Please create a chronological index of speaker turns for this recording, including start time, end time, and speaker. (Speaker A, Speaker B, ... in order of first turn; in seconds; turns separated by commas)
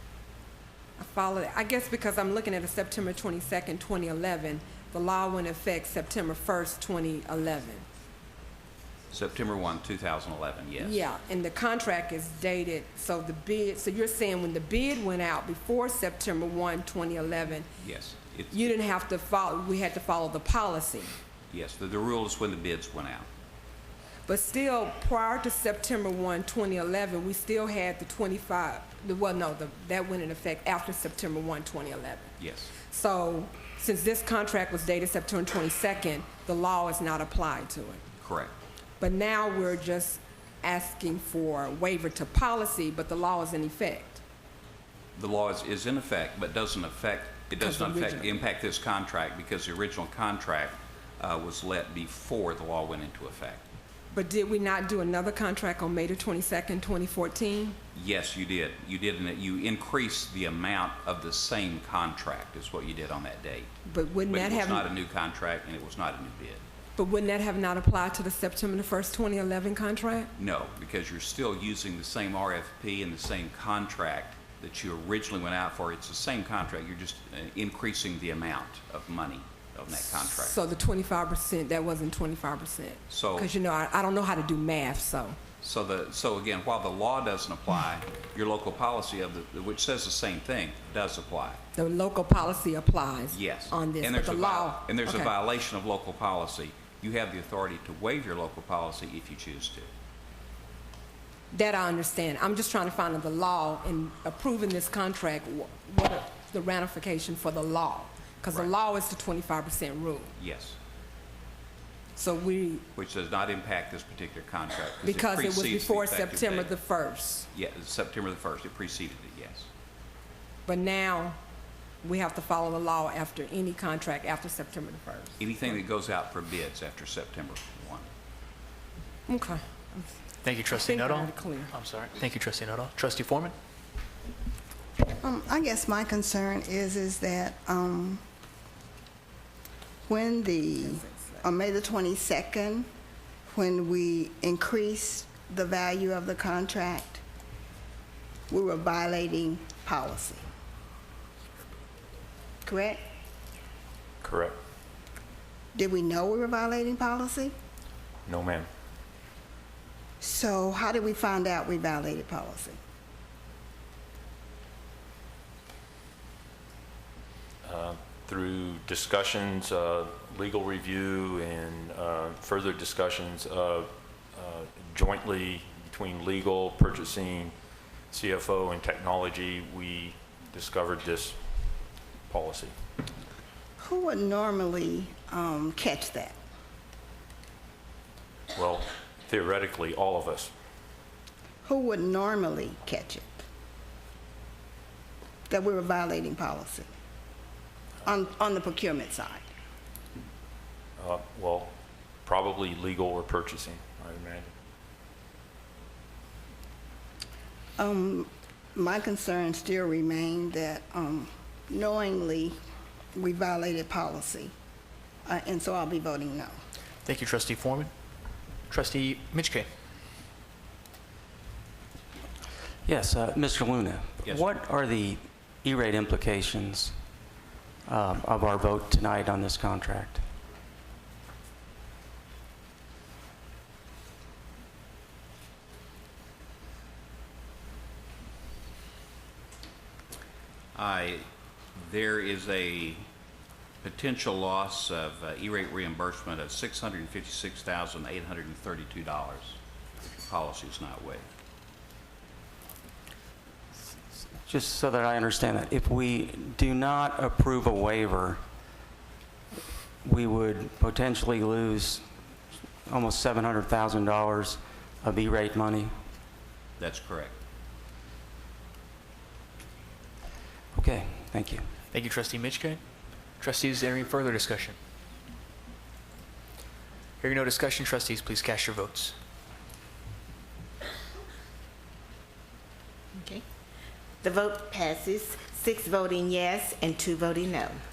Speaker A: 1.0-7.9, Speaker B: 9.1-11.1, Speaker A: 10.8-17.7, Speaker B: 17.8-18.7, Speaker A: 18.5-21.1, Speaker B: 21.5-23.3, Speaker A: 24.2-32.3, Speaker B: 32.4-32.7, Speaker A: 32.9-38.0, Speaker B: 38.2-38.5, Speaker A: 39.0-44.2, Speaker B: 45.2-53.6, Speaker A: 47.6-48.4, Speaker A: 54.1-57.8, Speaker B: 57.9-63.7, Speaker A: 63.9-64.9, Speaker B: 64.3-66.6, Speaker A: 67.0-70.3, Speaker B: 70.4-80.6, Speaker A: 80.3-85.4, Speaker B: 83.1-83.5, Speaker B: 85.6-91.6, Speaker A: 91.8-95.3, Speaker B: 93.3-99.9, Speaker A: 101.5-110.3, Speaker B: 110.4-110.8, Speaker A: 112.2-112.8, Speaker B: 113.0-116.8, Speaker A: 115.0-117.5, Speaker B: 117.5-119.7, Speaker A: 120.7-121.4, Speaker A: 122.0-125.6, Speaker B: 125.4-128.1, Speaker A: 129.3-130.1, Speaker C: 130.4-133.6, Speaker A: 130.7-131.7, Speaker D: 135.2-138.2, Speaker D: 140.1-142.9, Speaker A: 140.8-141.4, Speaker D: 143.5-147.2, Speaker D: 148.5-150.5, Speaker D: 152.6-153.0, Speaker E: 154.2-154.6, Speaker D: 155.7-157.5, Speaker E: 158.2-158.7, Speaker D: 160.2-162.8, Speaker E: 167.6-177.5, Speaker E: 178.1-181.4, Speaker E: 182.3-182.7, Speaker D: 183.8-186.4, Speaker E: 188.6-190.5, Speaker D: 191.6-193.4, Speaker D: 195.5-196.9, Speaker D: 198.1-199.4, Speaker E: 201.0-201.7, Speaker E: 202.2-204.5, Speaker D: 207.8-212.6, Speaker D: 213.2-214.5, Speaker D: 215.2-216.6, Speaker C: 217.0-217.9, Speaker C: 218.7-219.7, Speaker F: 222.8-226.9, Speaker B: 224.2-224.5, Speaker F: 227.9-230.2, Speaker B: 240.8-243.1, Speaker B: 243.8-249.6, Speaker B: 250.1-251.3, Speaker F: 254.4-258.4, Speaker F: 260.0-262.0, Speaker F: 262.9-265.9, Speaker B: 266.8-267.3, Speaker F: 270.8-271.6, Speaker C: 271.9-272.8, Speaker C: 273.4-274.8, Speaker C: 277.2-279.1, Speaker G: 283.1-283.4, Speaker G: 284.2-287.8